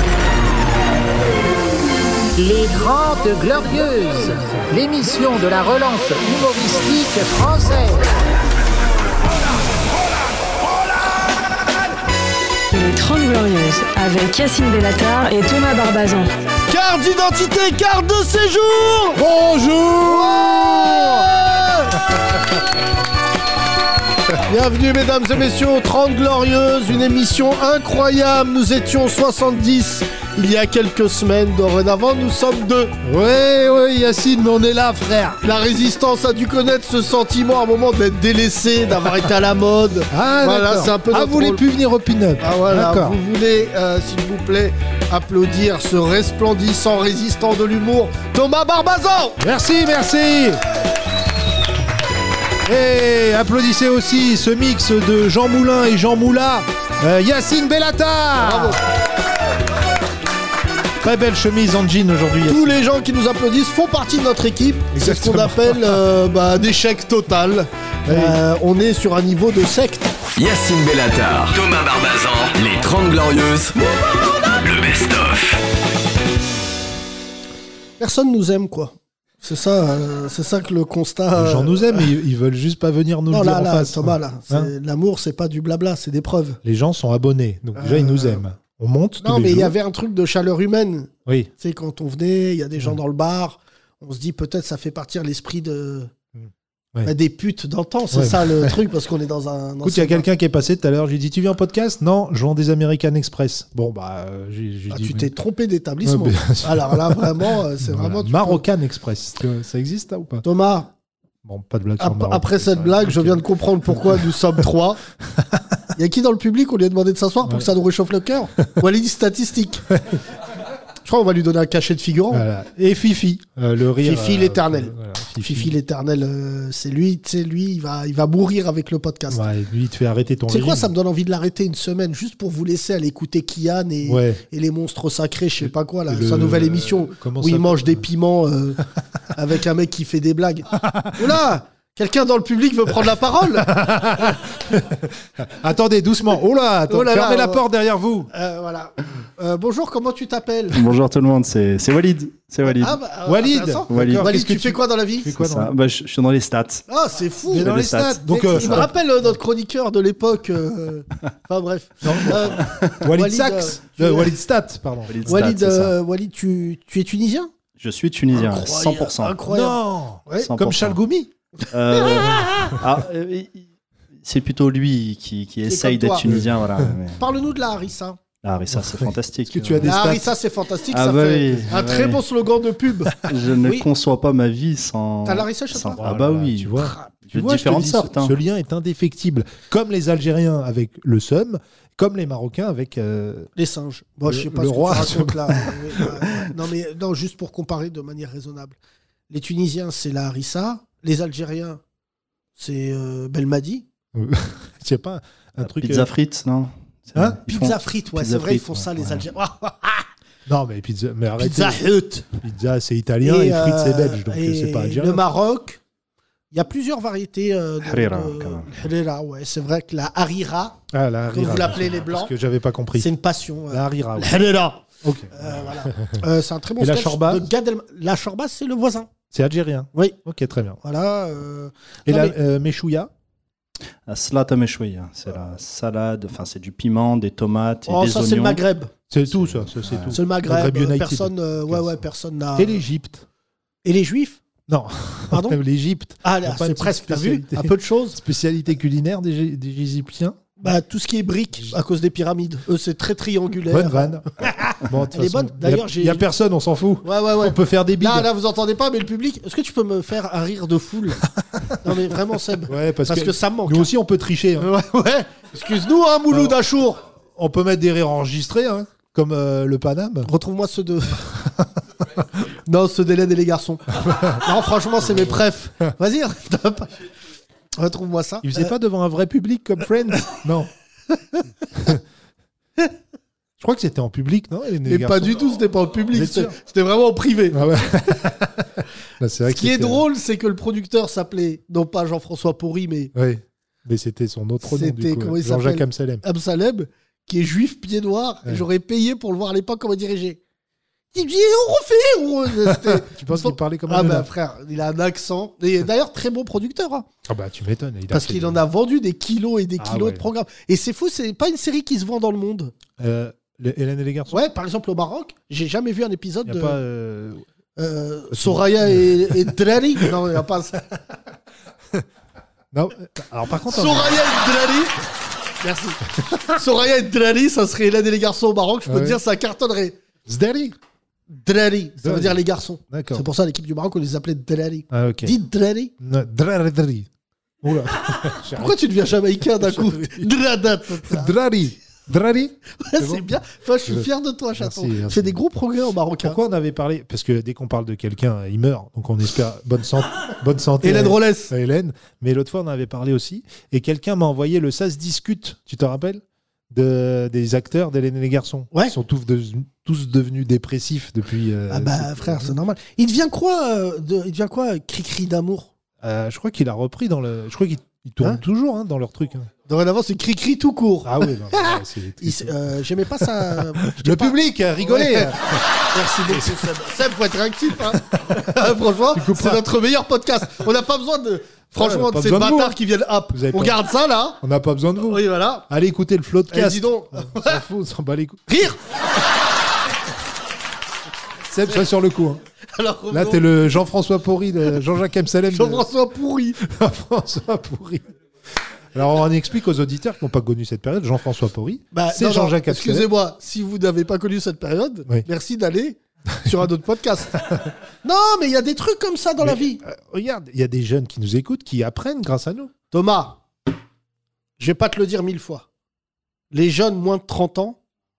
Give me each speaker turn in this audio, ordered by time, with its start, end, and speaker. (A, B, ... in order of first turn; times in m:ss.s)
0:02.4-0:08.0 A
0:12.7-0:16.3 B
0:16.7-0:19.2 C
0:19.2-0:20.9 D
0:20.0-0:22.0 C
0:24.5-0:32.9 C
0:33.0-0:35.4 D
0:35.4-0:41.6 C
0:40.1-0:43.2 D
0:42.4-0:49.4 C
0:49.4-0:50.6 D
0:52.6-0:58.8 D
0:58.4-0:58.8 C
1:01.0-1:02.8 D
1:02.5-1:10.1 C
1:04.9-1:06.0 D
1:08.1-1:08.4 D
1:10.4-1:13.7 E
1:14.6-1:15.6 E
1:18.0-1:22.1 C
1:21.3-1:24.7 D
1:23.3-1:26.6 C
1:26.6-1:29.7 D
1:27.8-1:28.4 C
1:29.2-1:36.1 C
1:36.3-1:37.1 D
1:37.0-1:40.3 C
1:38.1-1:38.8 D
1:39.8-1:45.3 D
1:44.9-1:48.6 C
1:46.0-1:50.4 D
1:50.4-1:50.9 C
1:51.4-1:54.4 D
1:52.0-1:55.0 C
1:55.3-1:55.8 D
1:55.9-1:59.8 C
2:01.0-2:02.4 C
2:02.3-2:05.7 D
2:04.0-2:09.5 C
2:09.3-2:10.9 D
2:10.5-2:18.8 C
2:14.0-2:14.4 D
2:15.6-2:18.0 D
2:19.3-2:23.9 C
2:20.8-2:21.3 D
2:23.6-2:28.3 D
2:26.9-2:27.6 C
2:28.3-2:30.8 C
2:30.7-2:33.0 F
2:32.6-2:35.3 C
2:33.2-2:35.7 D
2:33.9-2:34.3 F
2:35.3-2:36.9 F
2:36.9-2:37.9 C
2:37.5-2:38.9 D
2:37.5-2:38.9 F
2:38.5-2:44.4 C
2:42.0-2:45.4 D
2:45.1-2:45.9 F
2:45.2-2:47.5 C
2:47.8-2:49.4 F
2:48.3-2:50.5 C
2:49.5-2:51.3 D
2:50.4-2:51.0 F
2:51.7-2:53.7 F
2:52.0-2:52.7 C
2:54.2-2:57.2 F
2:55.6-2:56.2 C
2:56.2-2:56.9 D
2:57.2-2:58.2 C
2:58.4-3:00.0 F
2:58.7-3:00.3 D
2:59.8-3:03.9 C
3:00.9-3:02.2 F
3:03.2-3:08.4 F
3:05.2-3:06.0 C
3:06.0-3:13.5 D
3:06.8-3:07.1 C
3:13.6-3:18.8 C
3:14.2-3:16.0 D
3:19.3-3:21.8 C
3:22.6-3:23.8 C
3:24.1-3:26.1 D
3:25.6-3:29.3 F
3:27.1-3:27.4 D
3:27.4-3:30.1 C
3:30.5-3:35.2 D
3:31.4-3:32.3 C
3:33.2-3:35.8 C
3:36.5-3:42.3 C
3:37.8-3:38.7 F
3:40.9-3:43.1 D
3:42.9-3:49.1 C
3:43.7-3:44.4 D
3:45.0-3:46.2 D
3:46.8-3:47.5 D
3:49.3-3:50.8 D
3:50.8-3:52.4 C
3:52.0-3:53.1 D
3:54.0-3:58.7 F
3:57.9-3:58.9 C
3:59.1-4:02.0 D
3:59.3-4:00.2 F
4:00.1-4:02.8 C
4:02.5-4:03.2 D
4:03.8-4:04.4 C
4:04.7-4:10.5 D
4:05.3-4:05.6 C
4:06.2-4:08.2 C
4:10.6-4:16.2 C
4:13.7-4:18.3 D
4:17.0-4:21.2 C
4:21.5-4:21.8 D
4:21.8-4:23.9 C
4:22.7-4:24.7 D
4:24.6-4:27.0 C
4:26.3-4:26.6 D
4:27.3-4:30.3 D
4:30.2-4:31.2 C
4:31.2-4:31.7 D
4:32.7-4:36.9 C
4:34.0-4:34.4 D
4:35.0-4:35.4 D
4:37.8-4:38.7 C
4:38.4-4:40.7 D
4:41.7-4:42.0 D
4:43.6-4:45.4 D
4:44.8-4:47.6 C
4:46.1-4:46.5 D
4:47.5-4:50.0 D
4:49.4-4:53.1 C
4:53.1-4:56.2 D
4:54.6-5:00.4 C
5:01.1-5:07.0 C
5:02.7-5:04.3 D
5:07.2-5:08.6 D
5:08.1-5:12.7 C
5:09.8-5:10.2 D
5:13.0-5:14.4 D
5:14.3-5:16.8 C
5:16.5-5:17.4 D
5:17.8-5:21.0 C
5:18.3-5:19.3 D
5:22.7-5:24.2 D
5:23.7-5:24.9 C
5:25.6-5:30.0 C
5:28.9-5:29.2 D
5:30.2-5:30.8 D
5:31.3-5:35.9 C
5:32.0-5:33.2 D
5:34.9-5:35.3 D
5:36.0-5:37.1 D
5:37.6-5:38.8 D
5:38.1-5:41.3 C
5:39.6-5:40.3 D
5:41.1-5:43.3 D
5:42.8-5:46.4 C
5:43.8-5:45.4 D
5:46.2-6:02.6 D
5:50.8-5:51.5 C
6:01.7-6:05.7 C
6:06.0-6:09.5 D
6:09.6-6:15.4 C
6:11.0-6:15.6 D
6:15.9-6:24.4 C
6:16.3-6:16.7 D
6:17.9-6:18.4 D
6:19.1-6:19.6 D
6:21.8-6:22.8 D
6:23.3-6:23.8 D
6:24.4-6:28.7 D
6:25.0-6:25.6 C
6:26.5-6:27.6 C
6:28.5-6:28.8 C
6:31.5-6:32.4 D
6:32.7-6:33.5 C
6:33.1-6:35.9 D
6:35.5-6:36.6 C
6:36.6-6:38.1 D
6:38.9-6:43.1 D
6:41.9-6:49.8 C
6:49.4-6:52.7 D
6:52.9-6:53.4 C
6:54.6-6:55.6 C
6:56.5-6:57.8 C